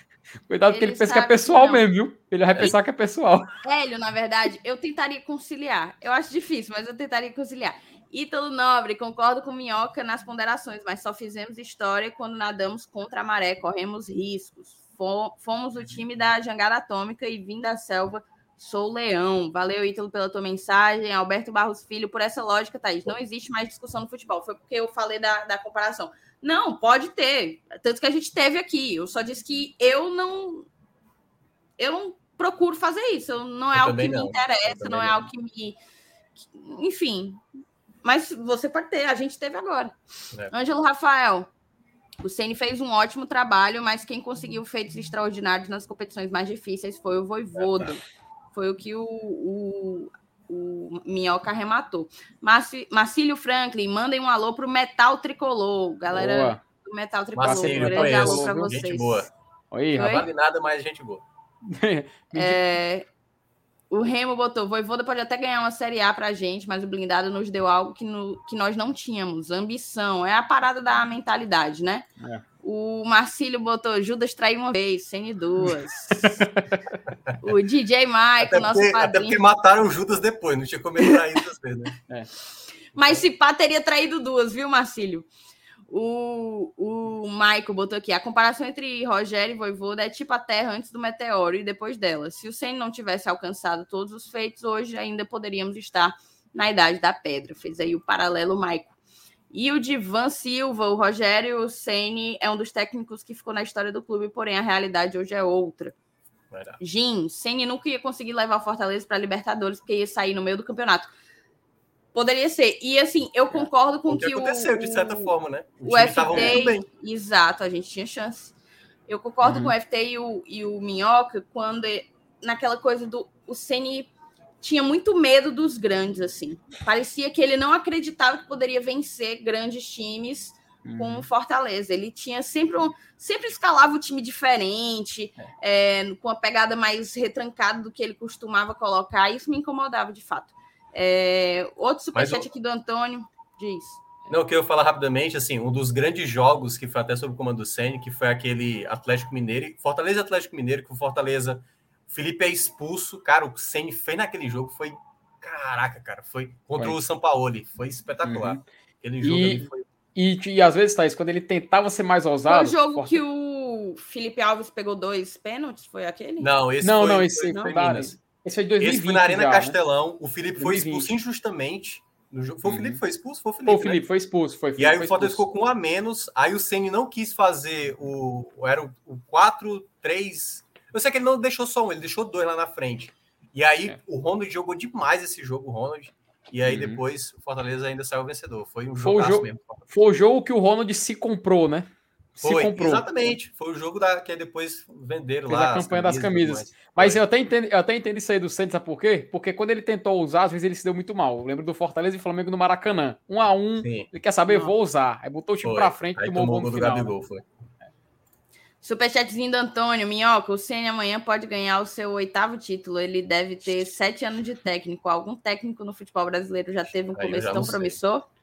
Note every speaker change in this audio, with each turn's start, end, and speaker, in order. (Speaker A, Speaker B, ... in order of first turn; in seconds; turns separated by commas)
Speaker A: 0.5-3.5, Speaker B: 0.7-1.8, Speaker B: 3.6-30.7, Speaker B: 31.8-35.8, Speaker C: 33.7-35.3, Speaker B: 36.5-37.4, Speaker B: 38.0-39.9, Speaker B: 40.5-41.5, Speaker B: 42.2-48.0, Speaker C: 47.6-47.9, Speaker B: 48.5-59.3, Speaker A: 56.1-56.6, Speaker C: 57.4-59.3, Speaker A: 57.4-58.8, Speaker A: 59.7-60.2, Speaker B: 60.0-60.3, Speaker C: 60.0-61.2, Speaker A: 61.7-62.6, Speaker B: 62.3-63.1, Speaker B: 63.9-72.1, Speaker B: 72.6-76.4, Speaker A: 76.2-77.0, Speaker B: 77.4-79.4, Speaker C: 78.4-82.0, Speaker B: 82.9-85.3, Speaker B: 85.9-99.0, Speaker B: 99.5-106.0, Speaker C: 106.5-106.8, Speaker B: 106.8-111.1, Speaker B: 112.1-115.3, Speaker C: 114.1-116.9, Speaker B: 115.8-118.5, Speaker A: 116.3-116.6, Speaker B: 119.1-124.1, Speaker A: 119.4-119.7, Speaker B: 124.6-144.0, Speaker A: 130.8-131.3, Speaker C: 142.1-142.5, Speaker C: 144.3-159.9, Speaker A: 158.2-158.6, Speaker A: 159.2-163.2, Speaker B: 162.5-166.5, Speaker C: 166.4-168.2, Speaker A: 166.8-169.8, Speaker C: 168.8-174.0, Speaker A: 170.6-171.1, Speaker A: 172.7-173.0, Speaker A: 173.7-175.4, Speaker C: 174.8-189.9, Speaker A: 186.6-187.0, Speaker A: 189.0-193.4, Speaker C: 192.4-197.2, Speaker A: 195.5-207.1, Speaker C: 203.8-204.1, Speaker C: 205.6-207.5, Speaker B: 208.8-218.3, Speaker C: 217.2-218.0